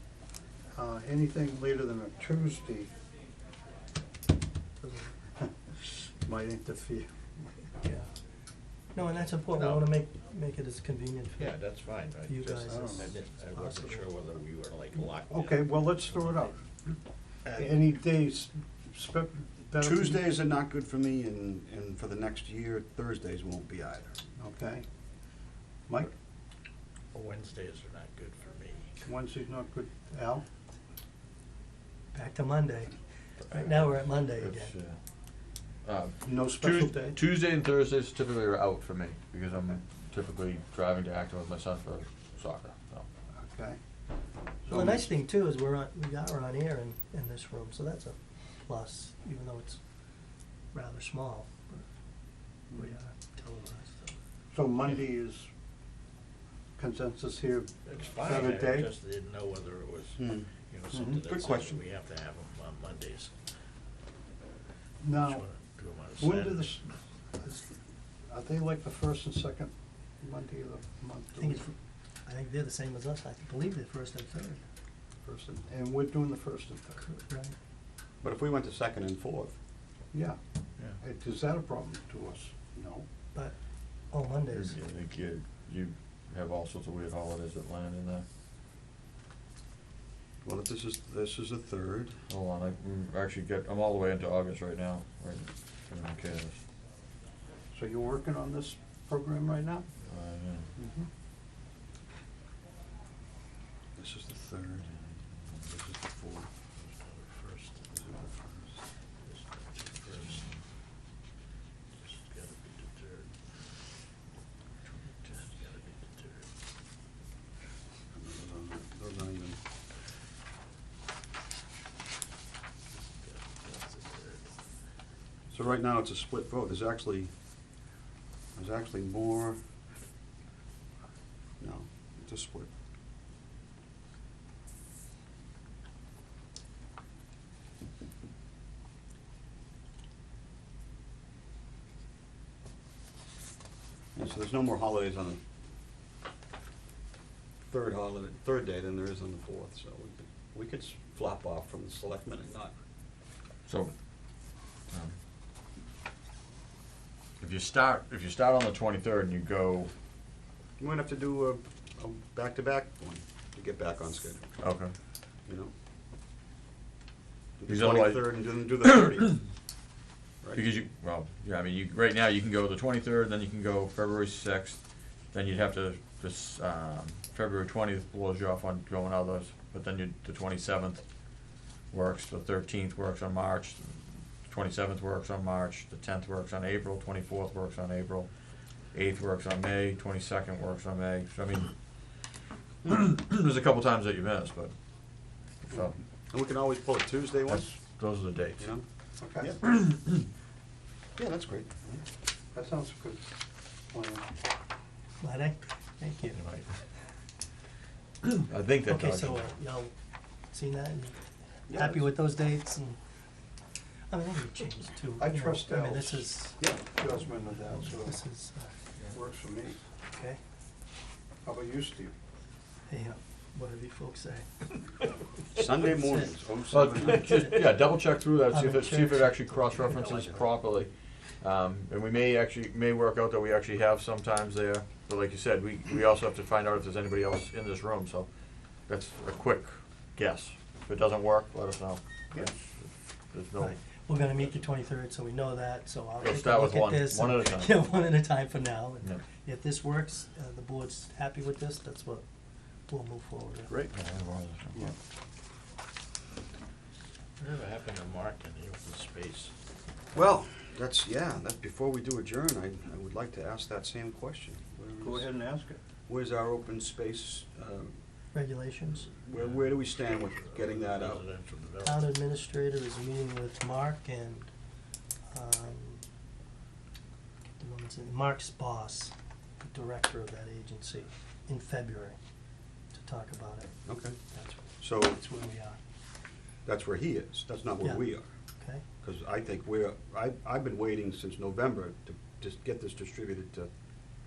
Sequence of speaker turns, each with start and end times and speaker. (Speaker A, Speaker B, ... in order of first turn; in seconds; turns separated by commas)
Speaker A: 0.8-2.9, Speaker B: 4.8-5.1, Speaker A: 6.0-7.1, Speaker B: 7.8-8.1, Speaker B: 8.9-14.1, Speaker C: 11.4-16.5, Speaker A: 12.7-13.1, Speaker A: 15.3-16.6, Speaker D: 17.4-17.7, Speaker A: 17.6-20.2, Speaker D: 19.8-24.3, Speaker A: 24.3-24.9, Speaker C: 27.1-28.9, Speaker A: 29.0-30.4, Speaker B: 32.1-32.9, Speaker E: 33.4-35.0, Speaker B: 33.5-34.7, Speaker E: 35.9-43.1, Speaker A: 36.2-37.2, Speaker A: 43.3-43.8, Speaker A: 44.6-45.1, Speaker B: 44.7-49.8, Speaker B: 50.7-51.9, Speaker B: 52.7-54.1, Speaker A: 54.5-55.5, Speaker A: 56.8-58.9, Speaker C: 57.9-63.3, Speaker D: 60.2-60.5, Speaker A: 60.9-61.2, Speaker D: 61.2-61.8, Speaker A: 65.0-65.5, Speaker C: 65.2-66.8, Speaker A: 66.2-66.8, Speaker A: 67.4-67.7, Speaker A: 68.3-71.6, Speaker B: 71.4-71.7, Speaker B: 72.2-74.6, Speaker A: 75.2-77.0, Speaker B: 77.0-77.5, Speaker D: 78.2-79.5, Speaker A: 80.1-80.4, Speaker A: 81.0-83.0, Speaker B: 84.1-84.8, Speaker E: 84.5-88.2, Speaker D: 90.4-92.2, Speaker E: 92.3-96.6, Speaker A: 97.7-99.8, Speaker E: 100.1-100.7, Speaker A: 100.8-101.1, Speaker D: 104.0-104.9, Speaker D: 105.6-106.5, Speaker C: 106.8-107.9, Speaker D: 107.9-108.8, Speaker C: 109.2-110.6, Speaker C: 111.9-113.5, Speaker C: 114.8-116.5, Speaker D: 118.1-119.6, Speaker C: 123.2-124.6, Speaker D: 125.5-127.3, Speaker D: 128.6-129.6, Speaker D: 131.6-132.7, Speaker D: 144.2-145.4, Speaker D: 147.7-152.7, Speaker E: 153.7-153.9, Speaker E: 154.9-155.2, Speaker E: 157.4-159.9, Speaker D: 160.8-164.5, Speaker E: 164.6-164.9, Speaker D: 165.5-165.7, Speaker D: 167.6-169.4, Speaker E: 167.7-169.4, Speaker E: 170.6-181.0, Speaker E: 181.9-188.3, Speaker E: 188.9-192.3, Speaker E: 192.8-196.0, Speaker D: 196.3-197.8, Speaker E: 197.5-198.7, Speaker D: 198.6-198.8, Speaker A: 199.2-199.6, Speaker E: 199.6-200.2, Speaker D: 201.2-202.0, Speaker A: 202.5-203.2, Speaker A: 203.9-204.3, Speaker B: 205.2-206.4, Speaker C: 206.3-206.7, Speaker E: 208.5-209.4, Speaker B: 208.9-209.9, Speaker B: 210.5-211.2, Speaker B: 211.7-213.0, Speaker B: 214.1-216.7, Speaker A: 215.2-216.3, Speaker D: 216.6-216.8, Speaker A: 216.9-218.2, Speaker B: 217.7-218.7, Speaker A: 219.1-219.8, Speaker B: 220.1-220.4, Speaker A: 221.4-222.1, Speaker B: 222.9-224.8, Speaker D: 225.5-227.2, Speaker B: 225.7-227.8, Speaker E: 226.7-238.3, Speaker B: 228.4-230.1, Speaker D: 230.0-230.3, Speaker E: 238.9-243.9, Speaker B: 243.6-252.2, Speaker E: 246.2-247.9, Speaker B: 252.9-253.7, Speaker E: 253.9-254.9, Speaker C: 257.4-259.5, Speaker D: 260.1-265.3, Speaker A: 265.0-265.8, Speaker D: 266.1-267.9, Speaker B: 268.3-269.1, Speaker D: 269.1-271.3, Speaker C: 269.3-272.1, Speaker B: 271.8-274.5, Speaker B: 275.3-276.1, Speaker B: 277.6-282.2, Speaker B: 282.9-285.8, Speaker D: 283.9-284.2, Speaker D: 284.8-285.2, Speaker D: 286.6-288.3, Speaker D: 289.0-293.7